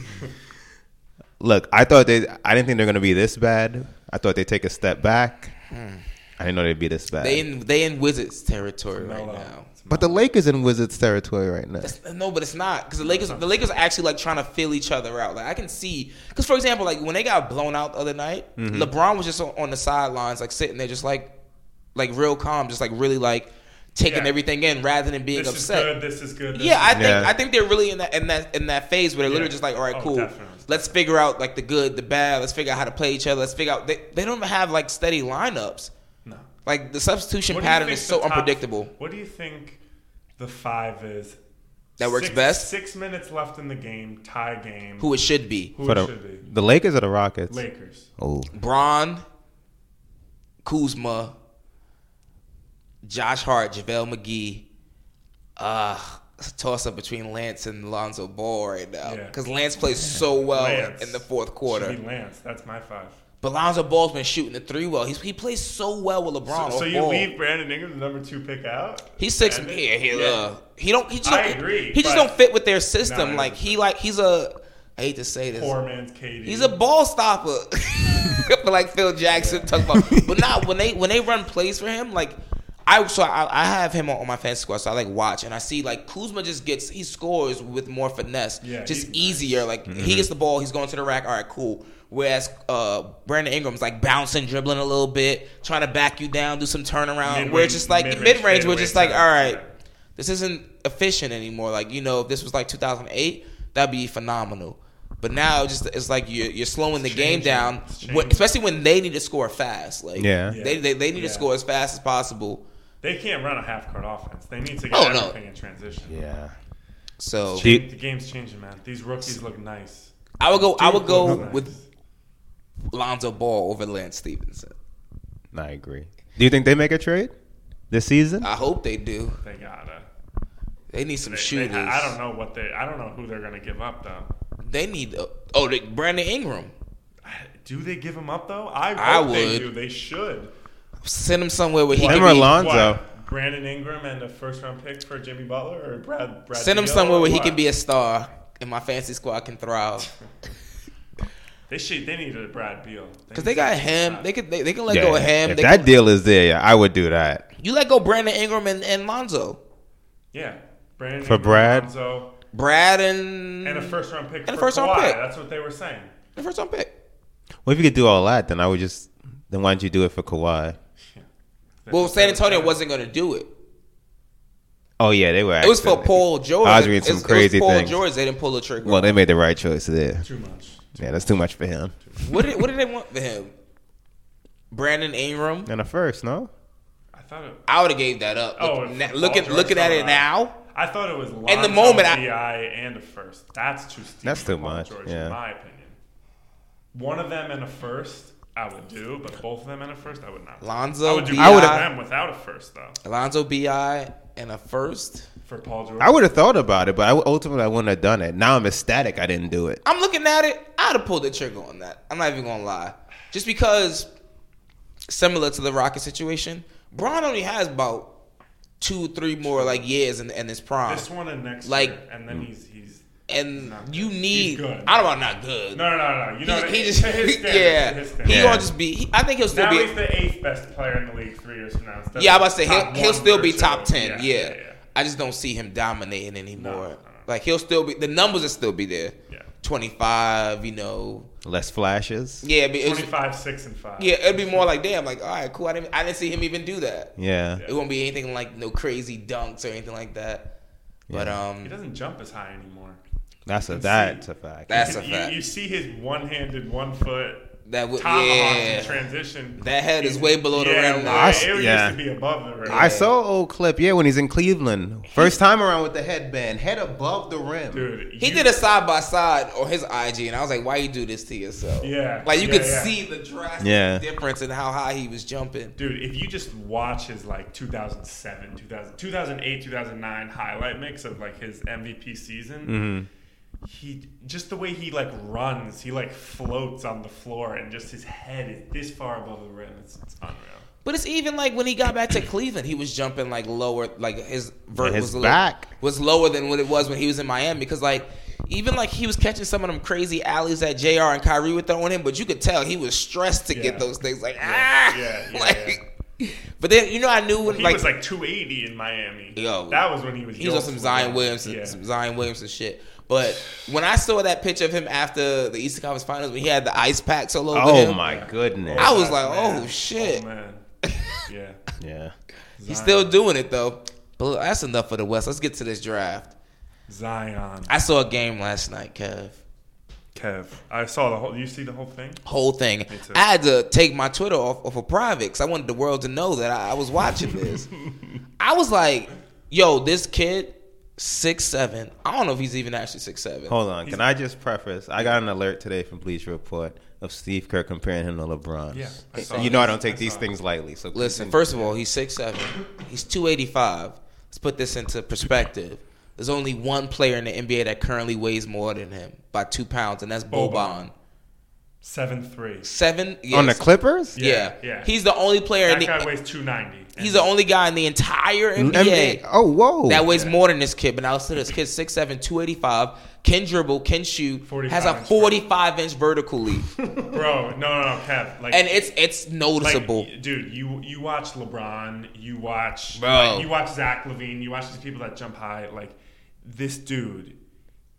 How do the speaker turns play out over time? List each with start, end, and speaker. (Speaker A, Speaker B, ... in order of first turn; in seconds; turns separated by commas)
Speaker A: 1.4-5.5, Speaker B: 5.7-6.0, Speaker A: 6.4-7.5, Speaker B: 7.2-9.7, Speaker C: 8.9-10.2, Speaker A: 9.9-11.9, Speaker B: 11.8-21.3, Speaker C: 13.0-13.7, Speaker A: 18.6-18.9, Speaker B: 21.9-26.0, Speaker C: 24.0-24.4, Speaker C: 25.3-27.3, Speaker B: 26.5-35.9, Speaker A: 26.9-27.3, Speaker C: 29.2-30.9, Speaker B: 36.7-38.9, Speaker C: 37.5-39.8, Speaker C: 40.4-41.4, Speaker C: 42.0-45.1, Speaker B: 42.0-42.7, Speaker B: 45.0-45.7, Speaker C: 45.8-46.5, Speaker A: 45.8-47.6, Speaker C: 47.5-48.1, Speaker A: 48.2-48.5, Speaker B: 48.5-49.2, Speaker B: 50.6-51.3, Speaker B: 53.0-54.6, Speaker B: 55.6-62.0, Speaker C: 59.0-59.4, Speaker C: 60.5-63.2, Speaker B: 63.4-67.3, Speaker C: 66.5-70.4, Speaker B: 69.2-75.8, Speaker C: 71.2-72.3, Speaker C: 73.0-73.8, Speaker C: 75.5-76.8, Speaker B: 76.4-99.6, Speaker C: 79.3-79.8, Speaker C: 88.6-89.7, Speaker A: 89.9-90.3, Speaker C: 97.2-99.7, Speaker B: 100.2-112.6, Speaker C: 107.0-108.5, Speaker A: 110.2-110.6, Speaker C: 110.5-111.5, Speaker C: 113.0-116.2, Speaker B: 114.9-115.3, Speaker A: 116.1-116.5, Speaker B: 117.2-117.7, Speaker C: 117.5-121.8, Speaker A: 117.6-117.9, Speaker B: 120.4-121.7, Speaker B: 122.9-124.7, Speaker A: 125.5-127.3, Speaker A: 127.9-128.5, Speaker B: 128.4-129.4, Speaker C: 129.4-130.1, Speaker B: 130.9-132.2, Speaker C: 131.2-134.3, Speaker B: 134.7-136.7, Speaker C: 137.2-140.5, Speaker B: 139.0-139.7, Speaker B: 141.0-142.6, Speaker C: 141.9-147.6, Speaker A: 142.0-143.0, Speaker B: 146.5-150.1, Speaker C: 151.7-154.3, Speaker B: 153.3-155.9, Speaker A: 154.9-157.5, Speaker B: 157.6-159.6, Speaker C: 160.3-162.3, Speaker A: 161.2-161.9, Speaker B: 162.5-165.2, Speaker C: 163.6-166.1, Speaker B: 166.4-166.9, Speaker A: 167.7-170.8, Speaker C: 171.8-172.8, Speaker B: 171.9-173.5, Speaker A: 175.0-178.0, Speaker B: 175.6-179.2, Speaker A: 178.8-180.3, Speaker C: 180.2-181.3, Speaker A: 181.0-181.9, Speaker C: 182.1-182.7, Speaker B: 182.2-183.5, Speaker B: 184.7-185.7, Speaker A: 185.7-186.5, Speaker C: 187.1-187.6, Speaker B: 187.7-190.6, Speaker C: 188.6-196.0, Speaker B: 191.5-192.2, Speaker A: 194.2-195.4, Speaker C: 196.9-203.0, Speaker B: 200.6-201.9, Speaker A: 201.4-201.8, Speaker B: 203.0-205.3, Speaker C: 205.4-206.4, Speaker A: 206.0-209.8, Speaker B: 209.8-214.1, Speaker B: 215.1-218.1, Speaker B: 218.8-221.1, Speaker C: 219.4-219.9, Speaker C: 220.9-225.0, Speaker B: 221.6-222.0, Speaker B: 223.3-229.9, Speaker C: 225.7-228.7, Speaker A: 228.2-228.7, Speaker C: 229.5-234.8, Speaker B: 232.2-241.3, Speaker C: 236.6-237.3, Speaker A: 241.4-242.4, Speaker B: 242.4-243.1, Speaker C: 242.8-244.7, Speaker B: 244.0-247.1, Speaker A: 247.2-247.6, Speaker B: 247.6-250.5, Speaker A: 251.1-251.4, Speaker B: 251.1-251.8, Speaker C: 251.6-253.0, Speaker A: 253.5-255.0, Speaker C: 253.7-257.5, Speaker B: 254.7-255.4, Speaker B: 257.7-261.5, Speaker C: 258.0-263.0, Speaker A: 261.1-262.0, Speaker B: 262.6-263.1, Speaker A: 262.7-267.9, Speaker C: 267.7-268.5, Speaker B: 268.2-275.8, Speaker C: 271.8-272.9, Speaker A: 273.6-274.0, Speaker C: 275.8-282.8, Speaker A: 282.6-283.1, Speaker C: 283.6-290.7, Speaker B: 290.9-307.9, Speaker A: 294.8-295.7, Speaker C: 303.5-303.9, Speaker C: 304.4-305.8, Speaker C: 307.4-311.8, Speaker B: 309.4-318.0, Speaker A: 317.5-319.0, Speaker C: 318.0-320.6, Speaker B: 318.8-320.2, Speaker C: 321.3-321.6, Speaker A: 321.8-322.1, Speaker C: 322.6-323.2, Speaker B: 322.7-326.3, Speaker C: 326.9-327.7, Speaker B: 327.7-329.4, Speaker C: 330.1-332.2, Speaker B: 332.3-337.7, Speaker C: 332.9-333.2, Speaker B: 338.4-343.6, Speaker A: 343.5-351.4, Speaker C: 348.7-350.3, Speaker B: 349.2-349.7, Speaker B: 350.9-360.9, Speaker C: 360.3-360.9, Speaker C: 361.8-362.7, Speaker B: 362.6-363.6, Speaker A: 363.3-364.2, Speaker B: 364.1-366.1, Speaker C: 364.2-364.9, Speaker C: 365.6-367.3, Speaker B: 367.0-369.2, Speaker A: 368.6-370.1, Speaker B: 369.9-376.7, Speaker C: 370.1-370.3, Speaker C: 374.4-375.4, Speaker C: 376.8-378.9, Speaker B: 378.5-380.1, Speaker C: 379.6-387.4, Speaker B: 383.0-383.5